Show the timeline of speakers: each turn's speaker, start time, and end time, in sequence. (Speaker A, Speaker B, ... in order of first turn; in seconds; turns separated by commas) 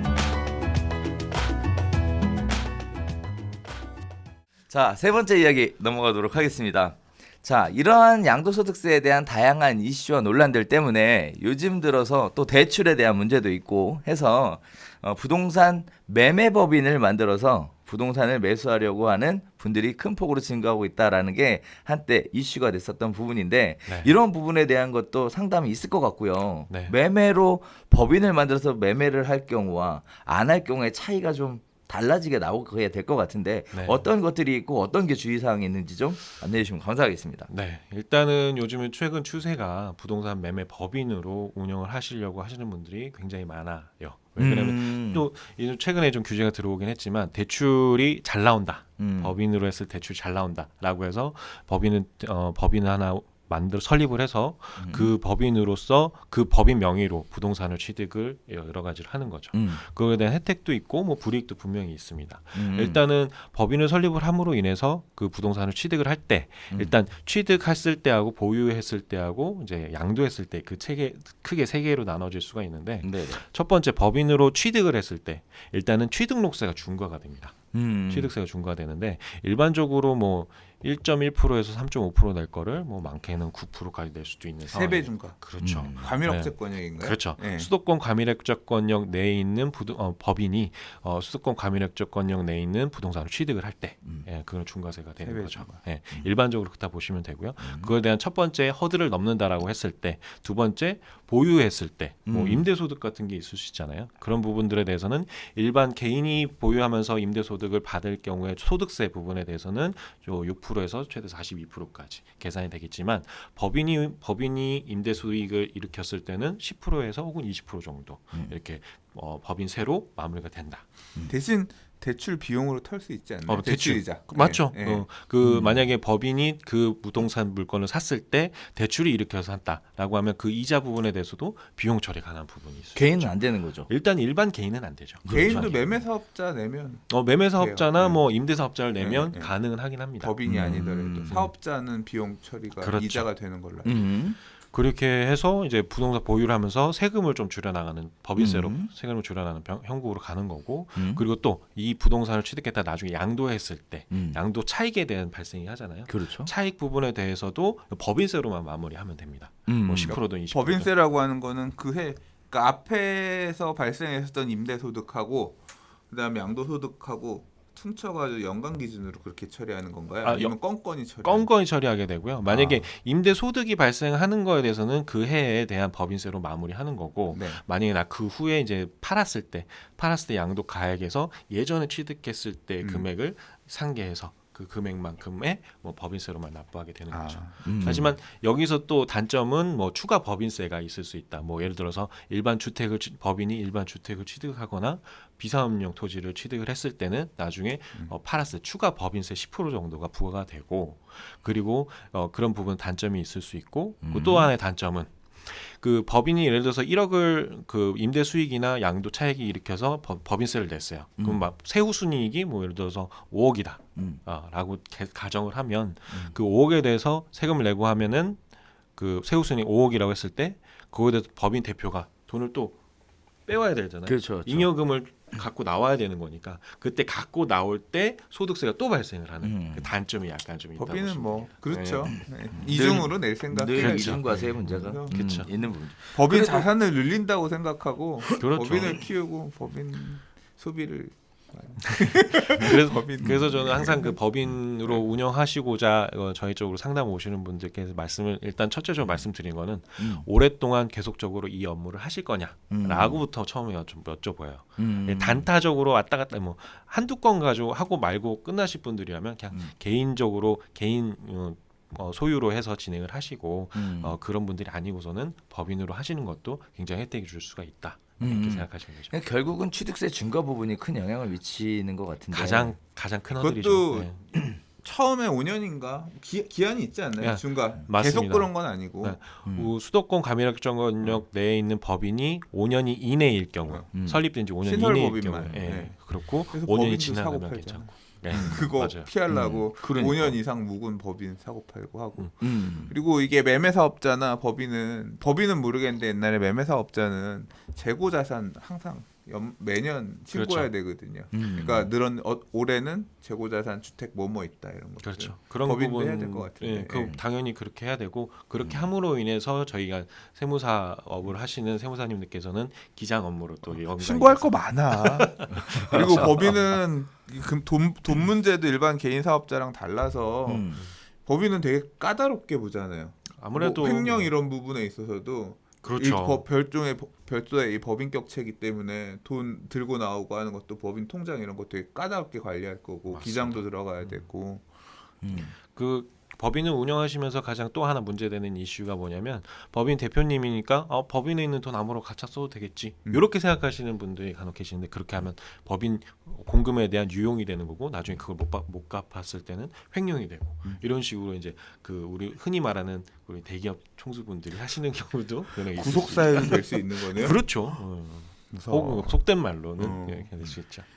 Speaker A: 4.7-37.5, Speaker B: 23.9-24.1, Speaker B: 26.7-26.9, Speaker B: 33.7-34.1, Speaker B: 37.5-120.9, Speaker A: 44.4-45.3, Speaker A: 49.0-49.4, Speaker A: 54.8-55.1, Speaker A: 59.5-59.8, Speaker A: 62.5-63.0, Speaker A: 66.7-67.0, Speaker A: 73.0-73.4, Speaker A: 77.7-78.3, Speaker C: 84.7-87.7, Speaker A: 85.6-86.2, Speaker C: 95.2-95.8, Speaker A: 97.6-97.9, Speaker A: 102.3-102.7, Speaker C: 121.3-125.1, Speaker B: 123.5-136.0, Speaker A: 125.4-125.9, Speaker A: 132.9-133.9, Speaker A: 135.2-135.8, Speaker C: 135.3-138.2, Speaker B: 137.1-140.4, Speaker C: 138.9-144.1, Speaker A: 140.4-141.5, Speaker B: 142.8-143.3, Speaker A: 143.8-144.4, Speaker B: 144.5-160.9, Speaker A: 148.4-148.9, Speaker A: 150.9-151.2, Speaker A: 154.1-154.4, Speaker A: 156.1-156.5, Speaker A: 159.7-160.2, Speaker C: 160.0-171.5, Speaker B: 170.2-218.4, Speaker C: 172.4-172.8, Speaker C: 177.3-177.6, Speaker C: 182.8-183.1, Speaker C: 187.1-187.6, Speaker A: 187.6-188.1, Speaker A: 204.0-204.5, Speaker A: 211.2-211.4, Speaker A: 213.9-214.2, Speaker A: 216.1-216.3, Speaker B: 218.9-222.8, Speaker B: 223.4-232.8, Speaker A: 224.0-224.7, Speaker A: 229.4-229.9, Speaker C: 230.8-235.5, Speaker A: 232.1-236.6, Speaker B: 233.7-235.6, Speaker C: 236.1-244.2, Speaker B: 238.4-239.0, Speaker B: 242.0-269.1, Speaker A: 243.2-243.5, Speaker A: 250.0-250.3, Speaker A: 252.7-253.2, Speaker A: 254.8-255.5, Speaker A: 263.7-264.2, Speaker A: 268.2-272.8, Speaker B: 272.3-274.2, Speaker C: 273.4-279.2, Speaker B: 277.2-289.1, Speaker A: 279.4-279.7, Speaker A: 283.9-284.3, Speaker C: 284.6-307.1, Speaker A: 285.4-285.9, Speaker A: 288.3-288.6, Speaker A: 289.3-290.4, Speaker A: 292.4-292.9, Speaker B: 300.3-300.7, Speaker A: 301.3-301.9, Speaker B: 305.0-316.6, Speaker A: 308.6-308.9, Speaker C: 313.7-334.7, Speaker A: 315.6-316.3, Speaker A: 320.4-320.8, Speaker B: 323.4-324.3, Speaker B: 325.8-326.4, Speaker B: 333.1-333.7, Speaker A: 335.2-335.5, Speaker B: 335.4-360.9, Speaker C: 355.7-357.8, Speaker C: 358.5-360.5